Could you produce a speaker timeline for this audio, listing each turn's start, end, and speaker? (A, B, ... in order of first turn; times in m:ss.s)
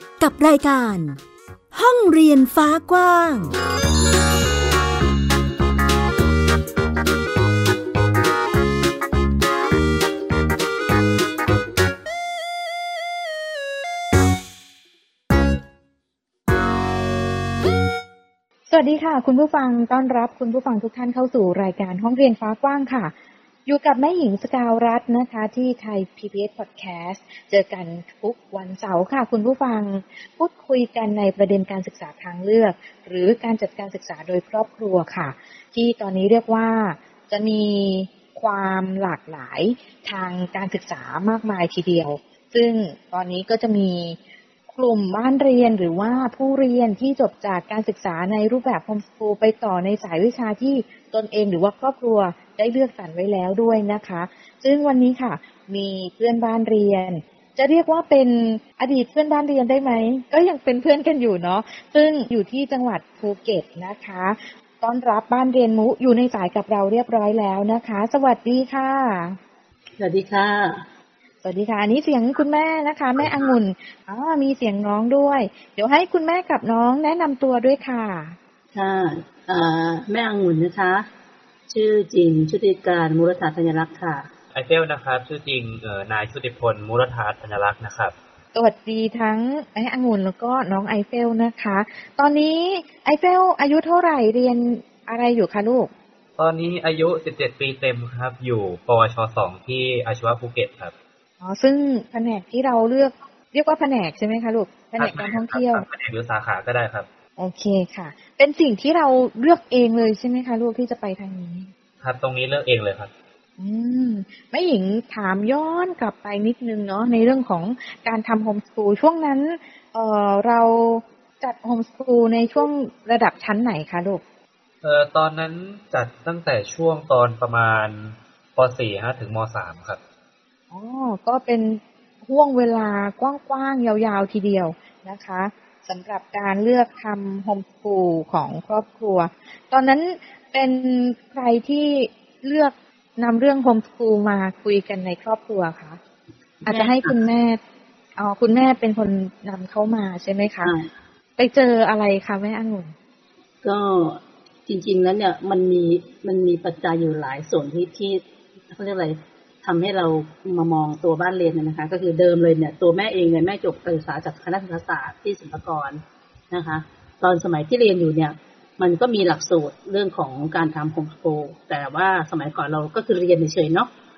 0:00.2-0:01.2 A
0:01.7-0:03.5 A
0:18.7-0:23.1 B
0:23.6-0:44.2 B
0:44.7-1:09.4 B
1:10.0-1:10.8 C
1:11.4-1:18.4 B
1:18.7-1:21.0 C
1:21.7-1:24.3 C
1:24.5-1:28.1 D
1:28.5-1:35.9 B
1:36.4-1:40.9 D
1:41.4-1:45.8 B
1:45.0-1:47.1 D
1:47.4-1:51.7 B
1:52.0-1:53.1 D
1:53.6-2:04.2 B
2:04.8-2:10.0 D
2:10.7-2:26.0 B
2:26.6-2:27.6 B
2:26.7-2:27.1 C
2:28.2-2:30.7 B
2:30.6-2:30.9 C
2:31.4-2:32.9 B
2:33.6-2:46.0 C
2:46.5-2:53.9 C